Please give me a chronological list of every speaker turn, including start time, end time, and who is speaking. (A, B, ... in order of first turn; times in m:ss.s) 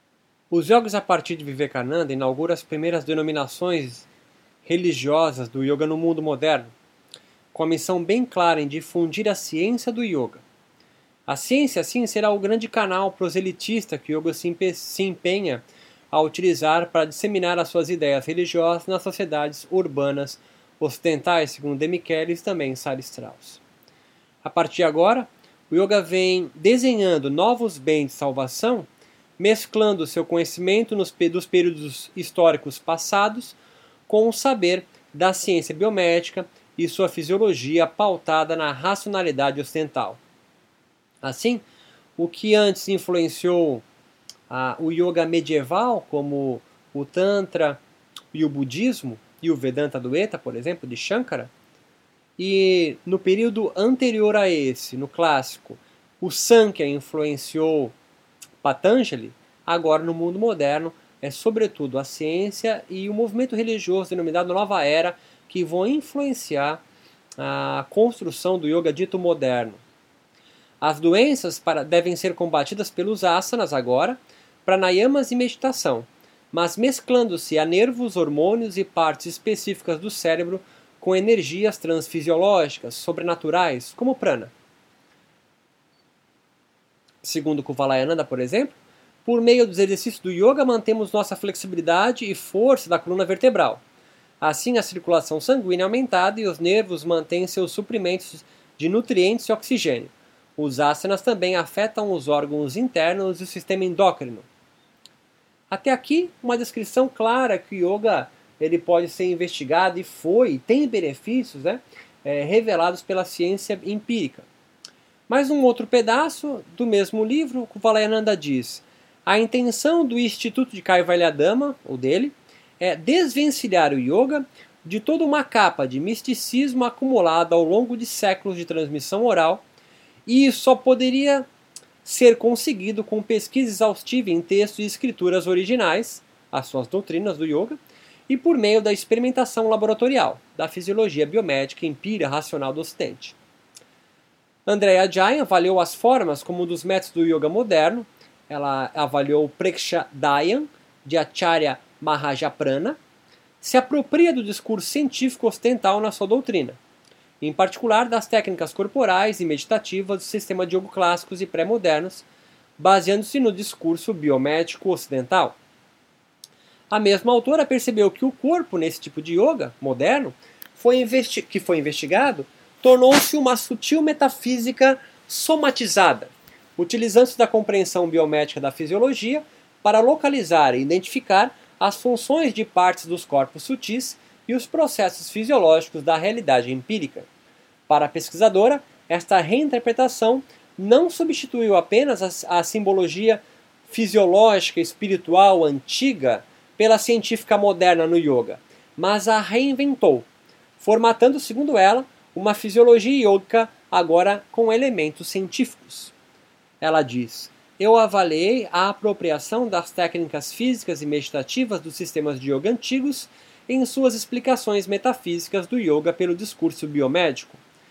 0:00.5-0:04.1 A
0:04.6-0:06.7 A
0:07.5-0:10.4 A
0:11.3-0:23.6 A
0:24.4-0:40.2 A
0:41.2-0:41.6 A
0:42.2-0:43.8 A
0:44.5-0:47.8 A
0:48.3-0:51.5 A
0:52.4-0:57.9 A
0:58.6-1:06.8 A
1:07.4-1:09.8 A
1:10.8-1:24.5 A
1:27.2-1:33.8 A
1:34.4-1:44.4 A
1:45.7-1:54.5 A
1:55.3-2:09.6 A
2:10.2-2:11.5 A
2:12.0-2:17.8 A
2:18.3-2:23.4 A
2:24.6-2:33.0 A
2:33.6-2:36.8 A
2:37.4-2:42.2 A
2:42.8-2:45.6 A
2:46.9-3:07.3 A
3:07.9-3:20.2 A
3:20.8-3:26.1 A
3:26.8-3:37.6 A